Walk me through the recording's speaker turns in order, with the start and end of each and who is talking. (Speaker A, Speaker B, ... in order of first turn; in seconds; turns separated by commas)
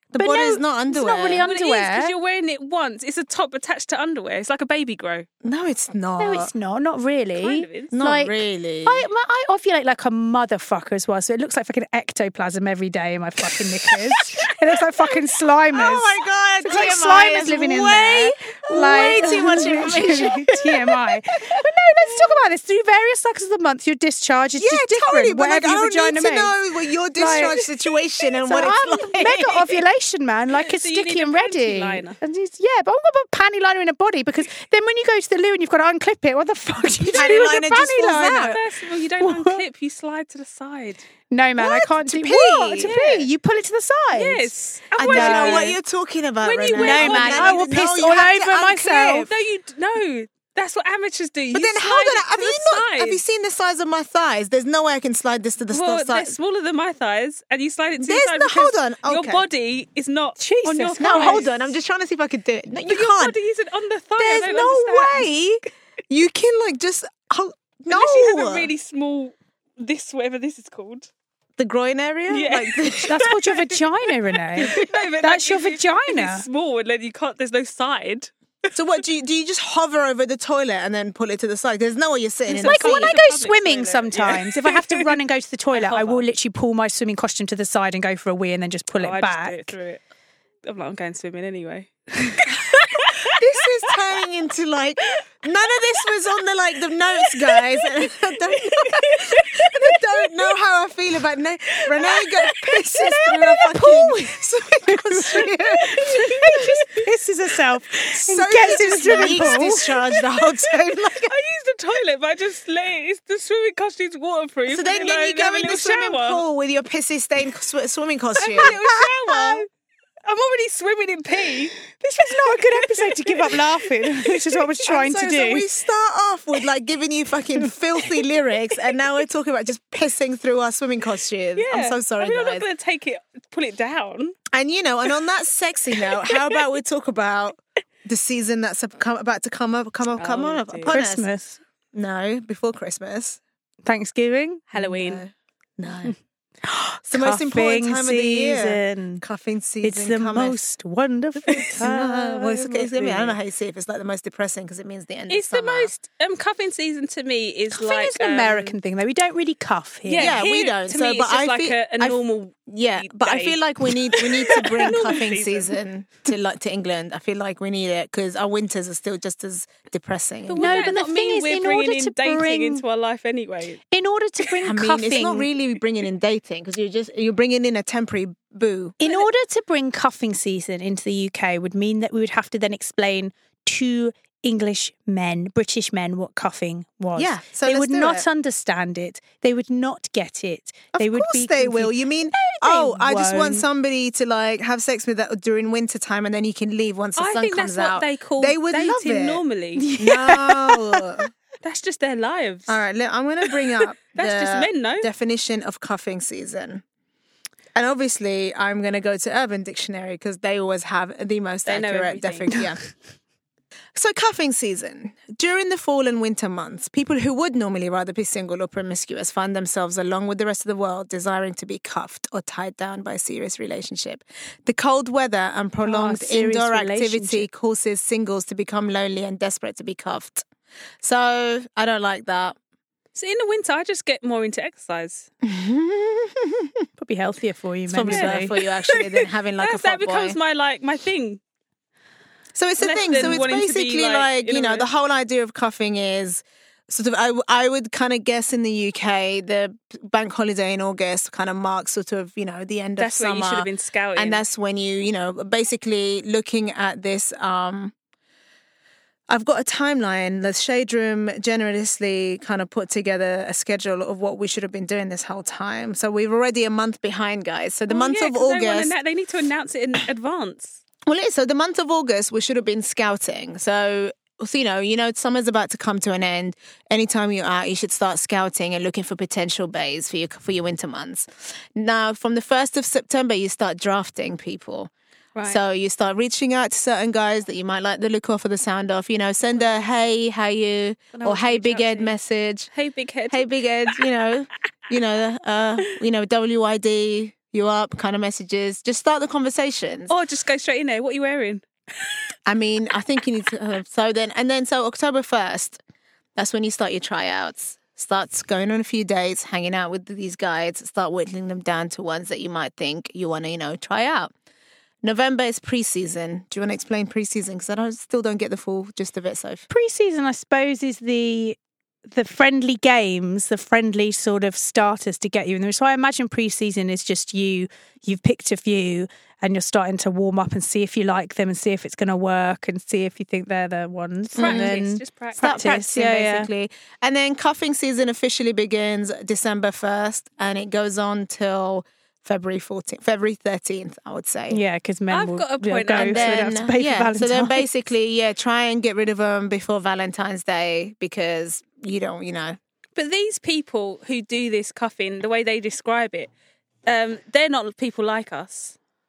Speaker A: 0.1-1.4, Speaker B: 0.1-2.1, Speaker C: 1.4-5.3, Speaker A: 5.4-6.5, Speaker B: 6.2-26.6, Speaker C: 7.3-7.9, Speaker A: 7.9-9.0, Speaker A: 15.7-21.0, Speaker A: 24.6-29.7, Speaker B: 27.1-27.7, Speaker B: 28.4-38.6, Speaker C: 30.5-32.2, Speaker A: 37.1-38.6, Speaker C: 37.1-37.6, Speaker C: 38.2-41.0, Speaker B: 39.2-39.6, Speaker B: 41.3-45.8, Speaker A: 41.6-42.9, Speaker C: 42.8-43.3, Speaker C: 44.1-45.8, Speaker A: 45.0-49.3, Speaker C: 46.4-47.7, Speaker B: 46.7-49.3, Speaker C: 49.2-53.2, Speaker A: 51.5-56.4, Speaker C: 55.7-61.6, Speaker A: 58.0-59.4, Speaker B: 60.4-61.5, Speaker A: 61.0-63.3, Speaker C: 62.9-65.3, Speaker A: 64.2-68.7, Speaker C: 67.9-71.1, Speaker A: 71.6-73.2, Speaker C: 72.3-73.8, Speaker B: 73.1-76.5, Speaker C: 74.5-78.7, Speaker A: 78.7-83.2, Speaker C: 82.5-85.2, Speaker B: 82.6-89.8, Speaker C: 85.7-86.2, Speaker C: 88.9-90.0, Speaker C: 90.6-94.0, Speaker A: 93.2-106.6, Speaker C: 97.3-97.9, Speaker C: 98.7-100.0, Speaker C: 101.7-102.5, Speaker B: 102.9-109.9, Speaker C: 106.0-106.9, Speaker A: 108.1-111.3, Speaker C: 108.9-109.4, Speaker C: 110.7-116.4, Speaker A: 114.7-119.7, Speaker C: 118.4-119.7, Speaker C: 120.2-121.7, Speaker B: 121.9-125.6, Speaker C: 122.4-124.3, Speaker A: 124.8-132.7, Speaker C: 131.6-134.4, Speaker A: 134.5-141.3, Speaker C: 136.3-136.6, Speaker C: 140.1-140.9, Speaker B: 140.9-141.6, Speaker A: 141.9-143.4, Speaker B: 143.8-145.2, Speaker C: 144.8-145.2, Speaker A: 144.8-146.2, Speaker B: 146.6-149.2, Speaker A: 147.1-150.6, Speaker B: 149.8-152.8, Speaker A: 151.5-155.9, Speaker C: 151.5-151.9, Speaker C: 152.5-153.3, Speaker C: 155.3-158.8, Speaker B: 157.7-160.4, Speaker C: 160.0-165.8, Speaker A: 160.2-170.7, Speaker C: 170.5-173.8, Speaker B: 170.6-172.8, Speaker B: 173.9-175.5, Speaker A: 174.6-178.9, Speaker B: 179.0-193.6, Speaker A: 187.2-188.2, Speaker A: 190.9-199.4, Speaker C: 197.2-200.0, Speaker B: 199.8-200.5, Speaker A: 200.0-201.3, Speaker C: 201.6-202.8, Speaker A: 202.7-206.8, Speaker C: 204.1-205.1, Speaker A: 207.7-212.8, Speaker C: 211.6-212.8, Speaker A: 213.9-230.4, Speaker B: 225.8-227.5, Speaker A: 231.0-232.6, Speaker C: 233.1-235.3, Speaker A: 235.4-236.7, Speaker B: 237.0-238.5, Speaker A: 237.9-240.4, Speaker C: 238.1-241.4, Speaker A: 242.5-257.9, Speaker C: 242.8-244.9, Speaker C: 253.0-254.4, Speaker A: 259.3-268.9, Speaker C: 267.9-270.8, Speaker A: 271.1-284.9, Speaker C: 285.3-285.6, Speaker A: 285.4-292.7, Speaker C: 289.5-289.9, Speaker C: 291.1-292.1, Speaker C: 292.7-294.1, Speaker A: 293.3-300.1, Speaker C: 300.1-301.6, Speaker A: 302.4-305.8, Speaker A: 306.4-314.3, Speaker A: 315.0-319.6, Speaker B: 319.7-321.6, Speaker B: 322.1-336.5, Speaker C: 334.3-335.7, Speaker A: 334.4-334.7, Speaker A: 335.4-344.6, Speaker B: 344.5-347.7, Speaker C: 345.1-346.6, Speaker A: 345.9-352.6, Speaker C: 352.9-356.3, Speaker C: 356.9-358.8